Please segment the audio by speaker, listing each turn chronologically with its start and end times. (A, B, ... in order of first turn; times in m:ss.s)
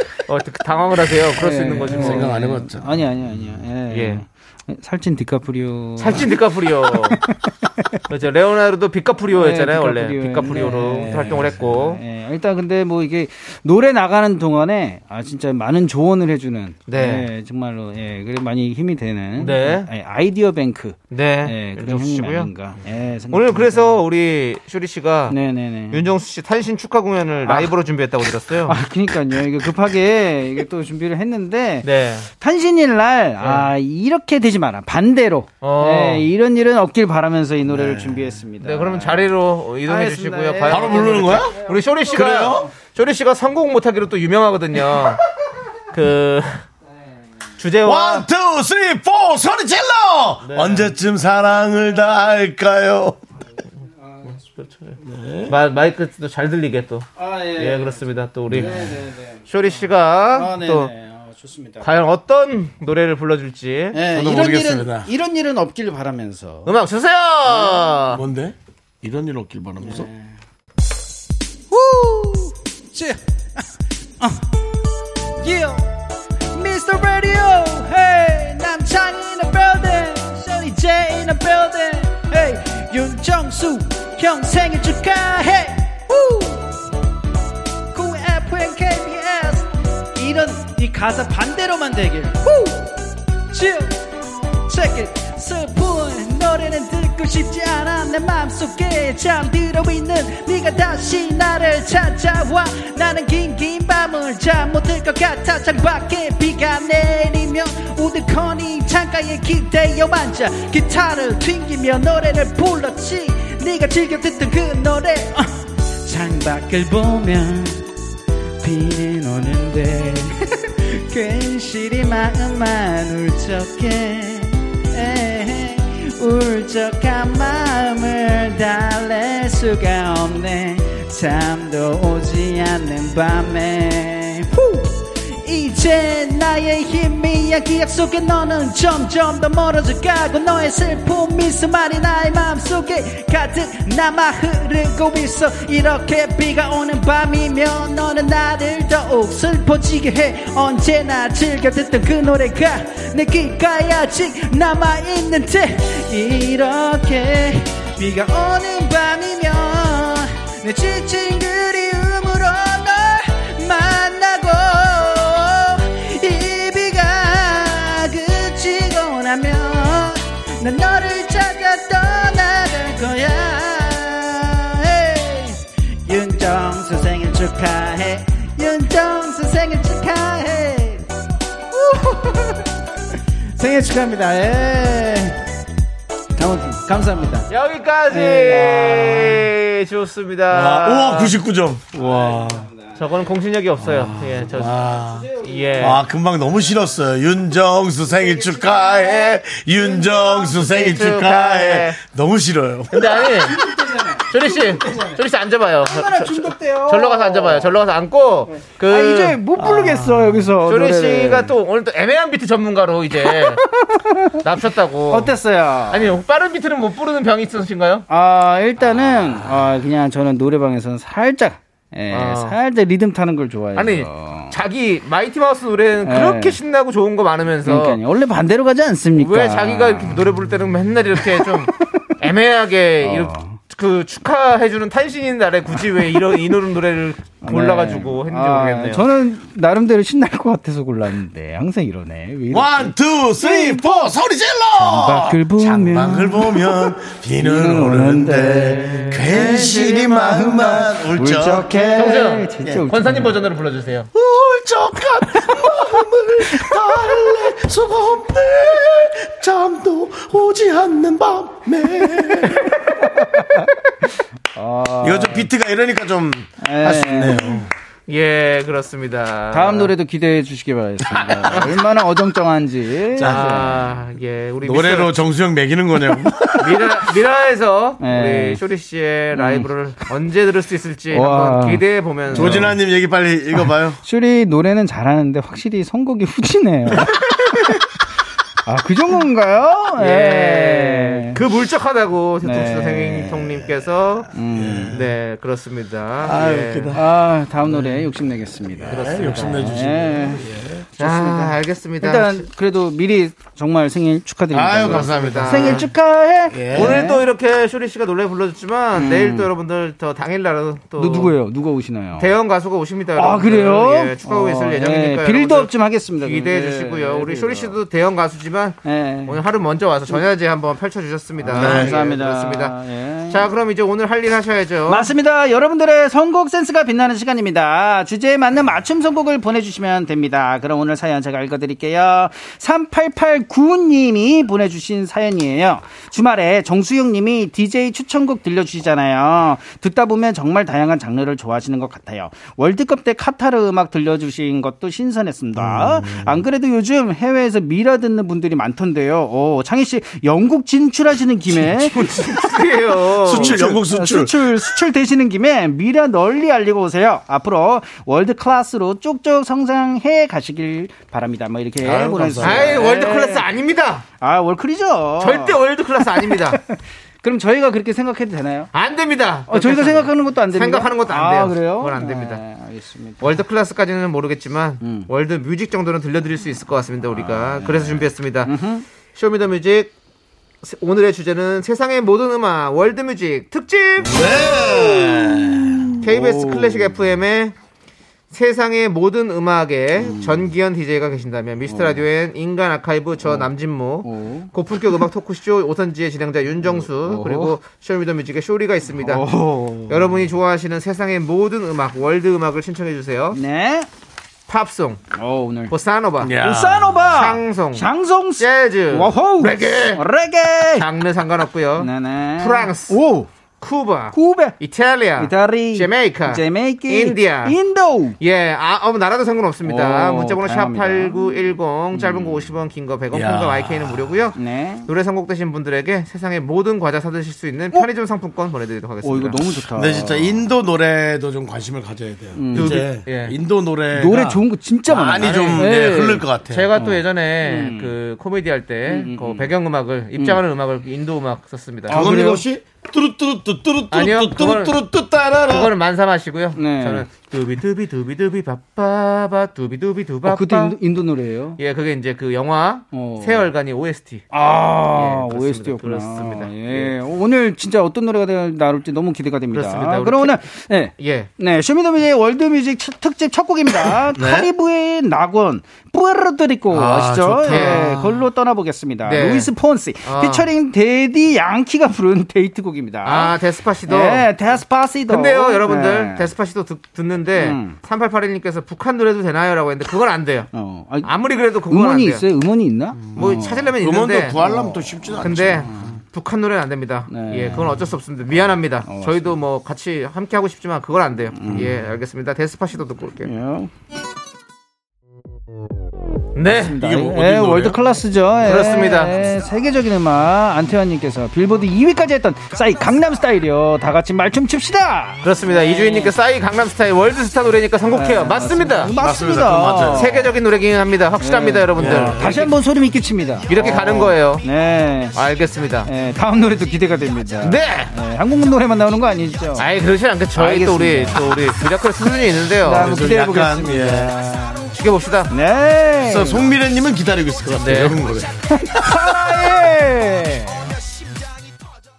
0:00.2-0:02.3 A
0:01.3-0:08.0 B
0:01.9-0:03.0 C
0:03.9-0:04.2 A
0:06.0-0:07.2 A
0:08.1-0:12.0 A
0:09.3-0:24.0 B
0:16.9-0:17.3 A
0:19.4-0:19.9 A
0:21.1-0:22.5 A
0:23.3-0:25.4 A
0:25.3-0:26.1 B
0:25.9-0:28.8 A
0:27.4-0:27.7 B
0:28.6-0:42.7 B
0:31.8-0:32.3 A
0:33.4-0:33.7 A
0:35.6-0:36.3 A
0:37.7-0:38.4 C
0:38.6-0:45.2 A
0:40.7-0:41.6 C
0:42.1-0:42.7 C
0:45.9-0:46.6 A
0:47.6-0:48.3 A
0:47.8-0:53.2 C
0:50.4-0:50.9 A
0:54.0-0:54.4 B
0:54.6-0:54.9 A
0:55.0-0:55.5 C
0:55.5-1:00.9 A
0:57.2-0:59.7 B
1:00.3-1:01.9 B
1:01.8-1:04.0 A
1:03.9-1:06.7 B
1:04.1-1:05.1 C
1:06.6-1:08.2 A
1:08.0-1:10.1 C
1:09.8-1:10.3 B
1:11.7-1:13.6 B
1:14.2-1:14.5 B
1:15.4-1:15.9 B
1:16.5-1:26.7 B
1:27.9-1:33.0 B
1:33.5-1:34.0 B
1:34.7-1:57.8 B
1:58.6-3:01.0 B
3:01.7-3:02.6 B
3:03.5-3:05.4 B
3:06.4-3:07.5 B
3:07.5-3:11.4 A
3:08.1-3:09.5 B
3:10.5-3:12.7 C
3:12.0-3:12.8 B
3:13.0-3:16.0 A
3:13.8-3:15.3 C
3:15.0-3:16.0 B
3:15.8-3:23.2 C
3:18.2-3:19.4 B
3:19.9-3:20.7 B
3:20.6-3:22.0 A
3:22.9-3:23.6 A
3:23.2-3:25.2 B
3:24.3-3:29.4 A
3:25.8-3:27.7 B
3:28.8-3:31.5 B
3:29.7-3:30.3 C
3:30.6-3:33.6 A
3:33.2-3:34.4 B
3:34.4-3:35.3 A
3:35.1-3:36.1 B
3:35.9-3:38.0 A
3:38.1-3:44.5 B
3:42.1-3:42.6 A
3:43.7-3:48.0 A
3:46.0-3:46.6 B
3:47.6-3:50.3 B
3:49.2-3:59.1 A
3:51.2-3:51.7 B
3:53.0-3:53.6 B
3:57.4-4:04.1 B
4:02.5-4:12.8 C
4:04.8-4:13.4 B
4:08.9-4:09.8 A
4:12.0-4:14.1 A
4:14.1-4:22.7 C
4:23.0-4:23.7 B
4:24.5-4:25.5 B
4:25.0-4:27.7 C
4:26.6-4:27.6 B
4:28.1-4:29.9 A
4:29.5-4:33.8 B
4:31.1-4:31.5 C
4:33.2-4:33.6 C
4:33.2-4:35.2 A
4:34.6-4:36.8 C
4:36.6-4:42.7 A
4:38.0-4:38.6 B
4:39.3-4:39.7 B
4:41.1-4:42.8 B
4:42.3-4:44.0 C
4:44.0-4:47.8 B
4:48.6-4:51.4 B
4:50.0-4:54.3 A
4:52.4-4:53.6 B
4:54.3-4:55.0 B
4:54.5-4:55.0 C
4:54.9-4:57.0 A
4:56.2-4:57.1 C
4:56.9-5:00.5 B
4:57.7-4:58.1 C
4:58.8-5:00.8 C
4:58.9-4:59.6 A
5:01.0-5:07.2 B
5:01.0-5:02.4 A
5:04.5-5:05.9 C
5:04.8-5:05.9 A
5:06.5-5:07.0 C
5:06.7-5:11.4 A
5:08.9-5:09.5 B
5:11.0-5:12.3 B
5:12.2-5:22.8 A
5:13.1-5:17.8 B
5:18.8-5:19.4 B
5:21.4-5:23.5 B
5:21.5-5:22.0 C
5:23.3-5:25.1 A
5:24.9-5:52.1 B
5:45.6-5:46.4 C
5:51.5-5:53.7 A
5:53.2-5:54.5 C
5:53.3-6:03.4 B
6:01.8-6:02.8 C
6:02.4-6:04.0 A
6:04.2-6:08.7 B
6:05.2-6:06.6 A
6:08.7-6:12.4 A
6:09.5-6:13.4 B
6:13.2-6:18.6 A
6:14.8-6:15.1 B
6:17.2-6:18.8 B
6:19.1-6:19.9 A
6:20.6-6:24.3 A
6:24.0-6:26.0 C
6:25.7-6:27.0 B
6:26.0-6:27.5 A
6:28.3-6:39.2 A
6:30.0-6:30.4 B
6:31.7-6:32.0 B
6:34.0-6:35.0 B
6:36.6-6:37.6 B
6:39.0-6:40.2 B
6:39.9-6:43.4 A
6:43.3-6:43.9 B
6:44.5-6:45.0 A
6:45.1-6:45.7 B
6:45.7-6:46.3 A
6:46.2-6:47.1 C
6:46.4-6:50.9 B
6:47.1-6:47.9 A
6:48.4-6:50.0 A
6:50.7-6:53.0 A
6:51.8-6:53.3 B
6:53.6-6:57.6 A
6:54.1-6:54.6 B
6:55.2-6:58.2 B
6:58.2-7:09.4 A
6:59.6-7:01.2 B
7:01.9-7:02.4 B
7:03.1-7:04.1 C
7:04.4-7:04.8 B
7:09.0-7:10.3 B
7:09.7-7:16.7 C
7:12.3-7:12.9 B
7:12.5-7:13.3 A
7:13.9-7:17.9 B
7:15.2-7:15.9 A
7:16.5-7:22.2 A
7:18.9-7:19.5 B
7:20.2-7:20.4 B
7:21.9-7:22.4 B
7:21.9-7:25.7 C
7:23.9-7:24.8 A
7:25.5-7:30.8 A
7:26.5-7:27.1 B
7:30.2-7:31.6 B
7:31.6-7:34.3 A
7:32.9-7:33.5 B
7:34.3-7:56.3 B
7:34.9-7:36.9 A
7:39.5-7:40.4 A
7:41.0-7:41.3 A
7:44.1-7:44.5 C
7:46.7-7:48.0 C
7:47.4-7:48.0 A
7:49.0-7:49.5 A
7:50.0-7:50.5 A
7:53.0-7:54.3 A
7:55.1-8:00.5 A
7:57.3-7:57.8 B
8:00.5-8:01.1 B
8:01.0-8:02.2 A
8:01.6-8:03.7 B
8:03.1-8:04.4 A
8:03.8-8:05.8 C
8:04.4-8:04.9 B
8:05.2-8:13.3 A
8:05.7-8:06.0 B
8:07.1-8:07.9 B
8:08.8-8:09.4 B
8:11.4-8:11.8 B
8:13.2-8:13.7 B
8:16.3-8:16.8 A
8:16.5-8:26.1 B
8:16.8-8:17.8 C
8:18.4-8:19.1 A
8:25.2-8:28.9 A
8:27.9-8:30.3 B
8:29.0-8:30.1 C
8:29.9-8:32.5 A
8:31.2-8:35.2 B
8:31.8-8:32.4 C
8:33.5-8:34.4 A
8:35.1-8:35.9 A
8:35.8-8:39.7 B
8:37.4-8:37.9 A
8:39.6-8:42.9 A
8:40.3-8:41.2 B
8:42.6-8:44.7 B
8:42.8-8:44.1 C
8:44.7-8:45.3 A
8:45.3-8:46.4 B
8:46.0-8:49.2 C
8:47.5-8:48.0 A
8:48.5-8:50.8 B